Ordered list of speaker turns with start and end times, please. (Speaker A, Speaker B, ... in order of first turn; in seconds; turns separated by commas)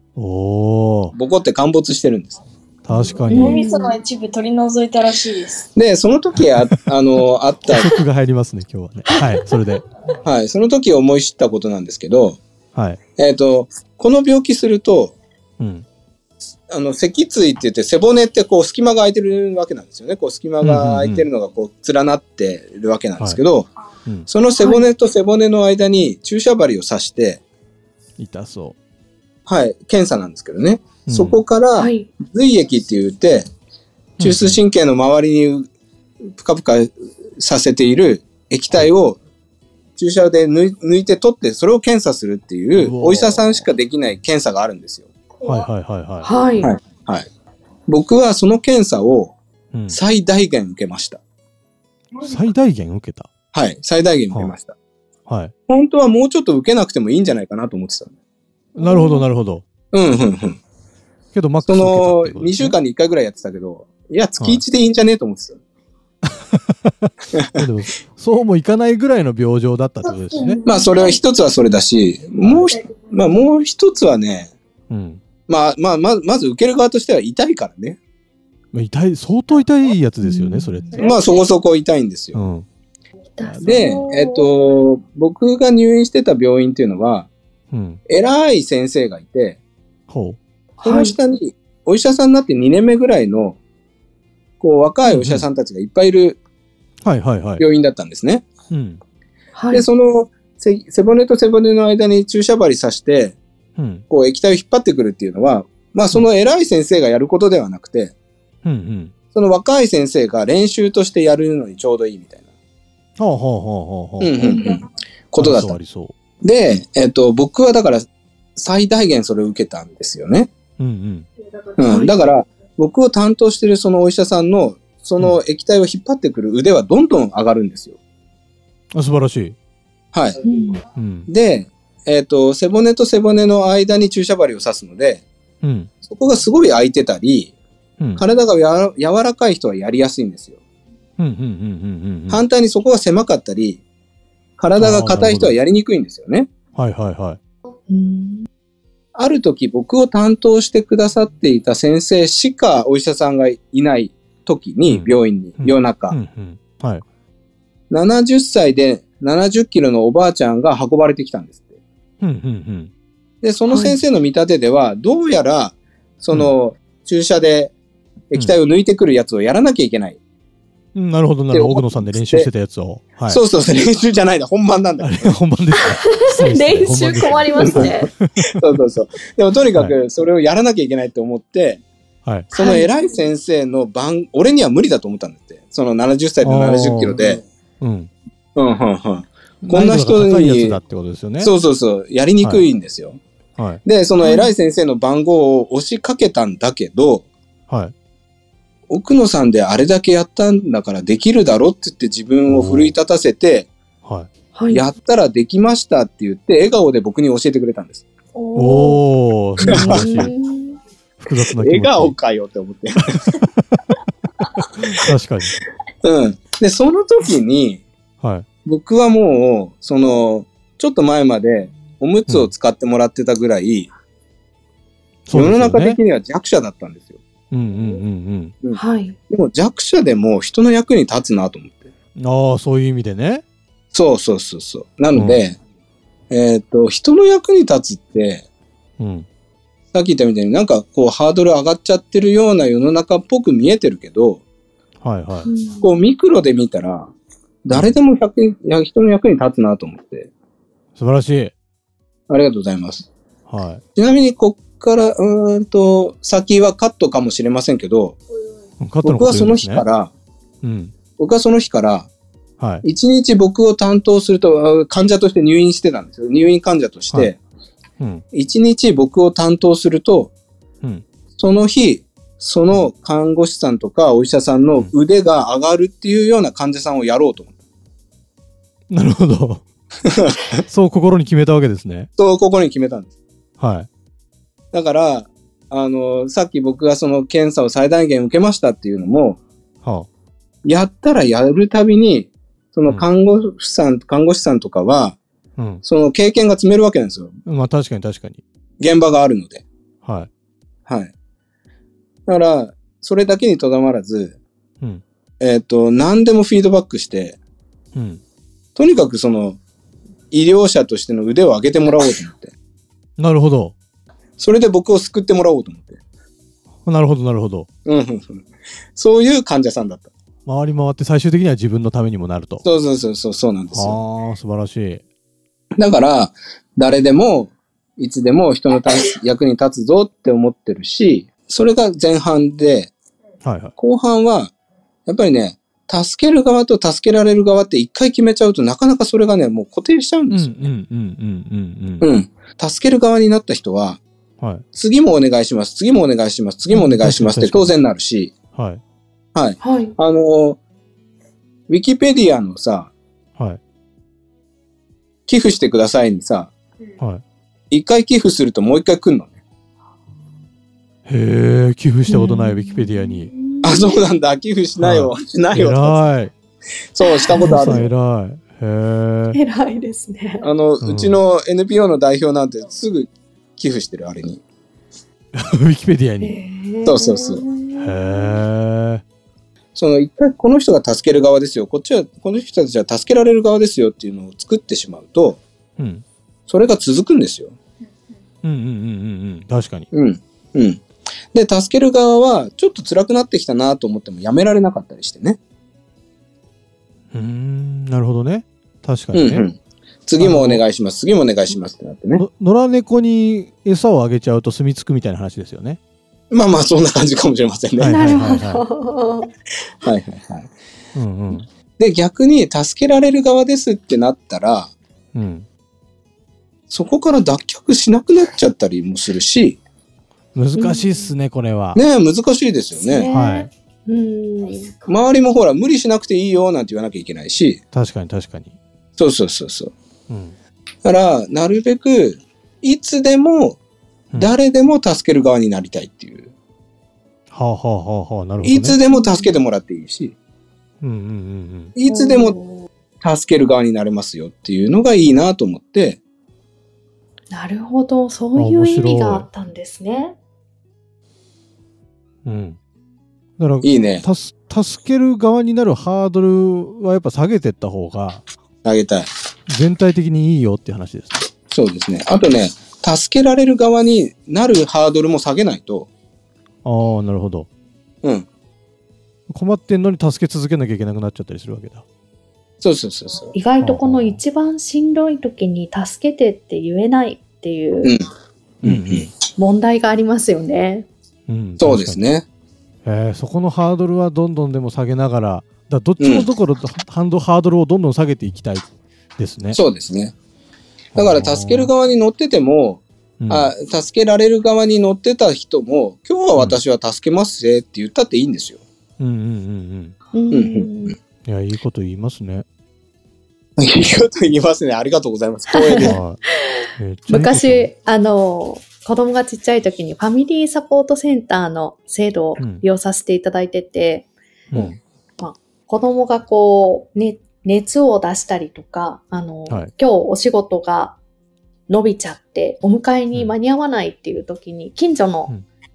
Speaker A: 0.2-1.1, Speaker B: 1.1-2.4, Speaker A: 2.9-3.6, Speaker C: 3.0-4.0, Speaker D: 3.3-5.7, Speaker B: 5.8-8.0, Speaker A: 7.7-9.8, Speaker B: 10.2-12.4, Speaker B: 13.2-15.2, Speaker A: 15.6-15.9, Speaker B: 16.7-23.7, Speaker A: 20.6-21.3, Speaker B: 24.3-27.4, Speaker C: 24.6-24.9, Speaker A: 28.2-28.8, Speaker B: 29.5-33.5, Speaker A: 31.1-31.4, Speaker C: 31.8-32.1, Speaker A: 34.2-34.6, Speaker B: 34.2-35.7, Speaker B: 36.3-39.2, Speaker B: 40.0-45.1, Speaker A: 42.8-43.6, Speaker A: 45.5-46.3, Speaker C: 46.2-46.7, Speaker B: 46.6-47.3, Speaker B: 47.9-49.4, Speaker A: 49.7-50.0, Speaker B: 49.9-51.2, Speaker A: 52.2-53.3, Speaker B: 53.5-54.7, Speaker A: 55.3-55.5, Speaker B: 55.7-58.1, Speaker A: 58.8-59.6, Speaker C: 58.8-59.3, Speaker B: 59.9-60.6, Speaker A: 61.3-62.8, Speaker B: 61.7-65.6, Speaker A: 66.3-70.6, Speaker D: 70.3-71.2, Speaker B: 70.7-74.5, Speaker A: 72.4-72.7, Speaker A: 74.9-75.2, Speaker B: 75.5-78.0, Speaker A: 78.7-81.0, Speaker C: 80.2-81.1, Speaker B: 81.0-82.4, Speaker A: 82.3-82.7, Speaker C: 83.4-84.5, Speaker A: 83.4-83.8, Speaker B: 83.6-87.3, Speaker A: 87.7-88.0, Speaker B: 88.1-89.6, Speaker A: 90.1-90.4, Speaker C: 90.8-91.2, Speaker B: 90.8-93.6, Speaker B: 94.6-96.4, Speaker A: 95.1-95.5, Speaker A: 97.0-97.6, Speaker B: 97.6-98.5, Speaker A: 98.7-99.0, Speaker C: 99.5-99.9, Speaker B: 99.7-103.4, Speaker A: 103.8-104.0, Speaker B: 104.1-108.1, Speaker A: 108.6-109.1, Speaker B: 109.3-112.5, Speaker A: 113.2-114.7, Speaker B: 114.2-115.8, Speaker A: 115.4-116.1, Speaker B: 116.4-120.5, Speaker A: 120.8-121.3, Speaker B: 121.8-128.0, Speaker C: 121.9-122.2, Speaker A: 128.9-129.6, Speaker B: 130.1-130.4, Speaker C: 130.4-130.8, Speaker A: 130.9-131.3, Speaker B: 131.3-135.3, Speaker A: 135.6-135.9, Speaker B: 136.1-137.6, Speaker B: 138.2-140.6, Speaker A: 141.2-142.4, Speaker B: 142.3-143.8, Speaker B: 144.6-146.5, Speaker A: 144.8-145.6, Speaker A: 146.8-147.4, Speaker C: 147.9-148.5, Speaker B: 149.2-156.2, Speaker A: 154.9-157.0, Speaker B: 157.9-161.8, Speaker A: 162.2-162.9, Speaker B: 163.4-167.7, Speaker C: 163.7-164.0, Speaker B: 168.3-170.2, Speaker A: 170.9-173.4, Speaker B: 171.5-172.5, Speaker B: 173.3-175.4, Speaker A: 175.0-178.6, Speaker C: 175.8-178.1, Speaker B: 177.6-177.9, Speaker B: 178.6-181.8, Speaker A: 182.2-182.5, Speaker B: 182.5-187.4, Speaker C: 182.5-182.9, Speaker A: 186.4-187.2, Speaker A: 187.8-188.1, Speaker B: 188.6-190.8, Speaker A: 189.6-191.5, Speaker B: 191.4-193.2, Speaker B: 193.8-197.3, Speaker C: 194.2-194.5, Speaker A: 197.7-197.9, Speaker B: 198.9-203.7, Speaker A: 202.5-202.9, Speaker A: 204.0-204.3, Speaker C: 204.5-204.8, Speaker B: 204.7-208.1, Speaker C: 208.3-209.0, Speaker A: 208.6-210.3, Speaker C: 209.6-210.8, Speaker B: 209.7-210.3, Speaker A: 211.2-212.1, Speaker B: 211.6-213.2, Speaker A: 213.2-213.8, Speaker A: 214.9-215.6, Speaker B: 216.0-217.8, Speaker A: 218.2-218.5, Speaker B: 218.7-223.9, Speaker A: 225.3-226.0, Speaker B: 225.3-227.2, Speaker A: 227.5-228.6, Speaker B: 228.6-231.9, Speaker C: 228.7-229.2, Speaker A: 232.2-233.4, Speaker B: 233.9-235.6, Speaker A: 235.1-235.4, Speaker B: 236.3-238.4, Speaker A: 239.0-239.3, Speaker B: 239.9-244.4, Speaker A: 245.0-245.5, Speaker C: 245.4-245.9, Speaker B: 245.8-247.1, Speaker B: 247.7-250.3, Speaker A: 251.0-251.5, Speaker B: 252.3-253.1, Speaker A: 253.5-253.8, Speaker B: 254.0-258.2, Speaker A: 258.8-259.8, Speaker B: 259.0-260.1, Speaker A: 260.6-260.9, Speaker B: 261.2-262.1, Speaker A: 262.6-262.9, Speaker B: 262.8-267.4, Speaker B: 268.3-270.3, Speaker B: 271.4-277.5, Speaker A: 278.9-279.6, Speaker B: 280.1-280.6, Speaker A: 280.6-282.1, Speaker B: 282.2-283.1, Speaker A: 283.6-283.9, Speaker B: 284.7-289.4, Speaker A: 289.8-290.1, Speaker B: 290.6-295.2, Speaker A: 295.6-295.8, Speaker B: 295.8-297.4, Speaker A: 297.5-298.4, Speaker B: 298.8-299.6, Speaker A: 300.0-300.3, Speaker B: 300.9-301.1, Speaker B: 302.3-304.4, Speaker B: 305.4-307.4, Speaker A: 307.9-308.2, Speaker B: 308.8-309.6, Speaker B: 310.3-312.5, Speaker A: 313.2-313.8, Speaker B: 314.4-316.0, Speaker A: 316.9-317.7, Speaker B: 317.9-318.4, Speaker B: 319.0-320.1, Speaker A: 320.5-322.6, Speaker B: 322.6-324.0, Speaker A: 323.7-325.0, Speaker B: 325.8-332.9, Speaker A: 333.4-333.7, Speaker B: 333.8-334.5, Speaker B: 335.1-340.7, Speaker A: 340.3-342.1, Speaker B: 342.0-344.0, Speaker B: 344.7-348.4, Speaker A: 346.7-347.7, Speaker A: 348.5-348.8, Speaker B: 349.4-350.6, Speaker C: 349.6-350.0, Speaker B: 351.7-352.9, Speaker B: 355.3-356.5, Speaker B: 357.7-359.4, Speaker A: 361.1-363.3, Speaker C: 362.1-364.1, Speaker B: 363.6-366.1, Speaker A: 364.8-366.3, Speaker B: 366.9-367.9, Speaker C: 367.0-367.9, Speaker A: 367.4-369.4, Speaker C: 369.3-370.5, Speaker B: 370.4-374.4, Speaker A: 370.8-371.2, Speaker A: 375.3-376.4, Speaker C: 376.2-378.4, Speaker B: 376.9-377.4, Speaker A: 377.8-379.0, Speaker B: 379.8-385.4, Speaker A: 385.8-386.0, Speaker B: 386.5-387.6, Speaker A: 388.4-389.9, Speaker B: 389.9-390.8, Speaker B: 391.3-395.4, Speaker A: 397.1-399.5, Speaker B: 399.1-402.2, Speaker A: 400.2-400.6, Speaker A: 402.2-405.8, Speaker B: 406.3-408.0, Speaker A: 407.8-408.6, Speaker C: 407.9-409.3, Speaker B: 409.8-410.5, Speaker A: 410.9-411.5, Speaker B: 411.8-414.7, Speaker A: 415.1-415.5, Speaker B: 416.7-419.6, Speaker A: 420.4-421.8, Speaker C: 420.6-421.1, Speaker B: 421.8-423.1, Speaker C: 422.8-424.8, Speaker A: 423.1-423.5, Speaker B: 424.9-427.6, Speaker A: 427.7-428.6, Speaker B: 429.0-429.7, Speaker A: 430.1-430.4, Speaker B: 430.9-433.6, Speaker B: 434.2-436.3, Speaker A: 437.3-438.8, Speaker B: 438.4-440.1, Speaker C: 438.9-439.3, Speaker A: 440.8-441.7, Speaker B: 441.8-442.4, Speaker C: 441.9-442.7, Speaker B: 443.0-446.0, Speaker C: 447.3-450.2, Speaker A: 448.4-449.3, Speaker A: 452.2-452.6, Speaker A: 453.4-458.2, Speaker B: 453.6-454.1, Speaker B: 458.6-459.1, Speaker A: 459.5-461.3, Speaker B: 461.5-465.9, Speaker A: 466.6-467.5, Speaker A: 469.3-471.8, Speaker B: 472.6-473.3, Speaker C: 473.3-477.9, Speaker A: 473.6-474.2, Speaker B: 478.6-479.1, Speaker A: 478.6-479.1, Speaker C: 479.4-480.9, Speaker A: 481.3-482.0, Speaker B: 481.6-482.2, Speaker A: 482.9-489.6, Speaker B: 486.0-486.3, Speaker B: 489.5-490.1, Speaker A: 490.9-491.7, Speaker B: 490.9-498.6, Speaker A: 493.2-493.5, Speaker A: 499.0-499.9, Speaker C: 500.1-501.0, Speaker B: 500.3-500.9, Speaker A: 501.2-502.4, Speaker B: 503.6-506.0, Speaker C: 505.5-506.0, Speaker A: 505.8-506.2, Speaker A: 506.8-507.7, Speaker C: 507.1-514.1, Speaker A: 512.4-512.6, Speaker A: 514.5-514.8, Speaker C: 515.2-521.0, Speaker C: 521.7-525.3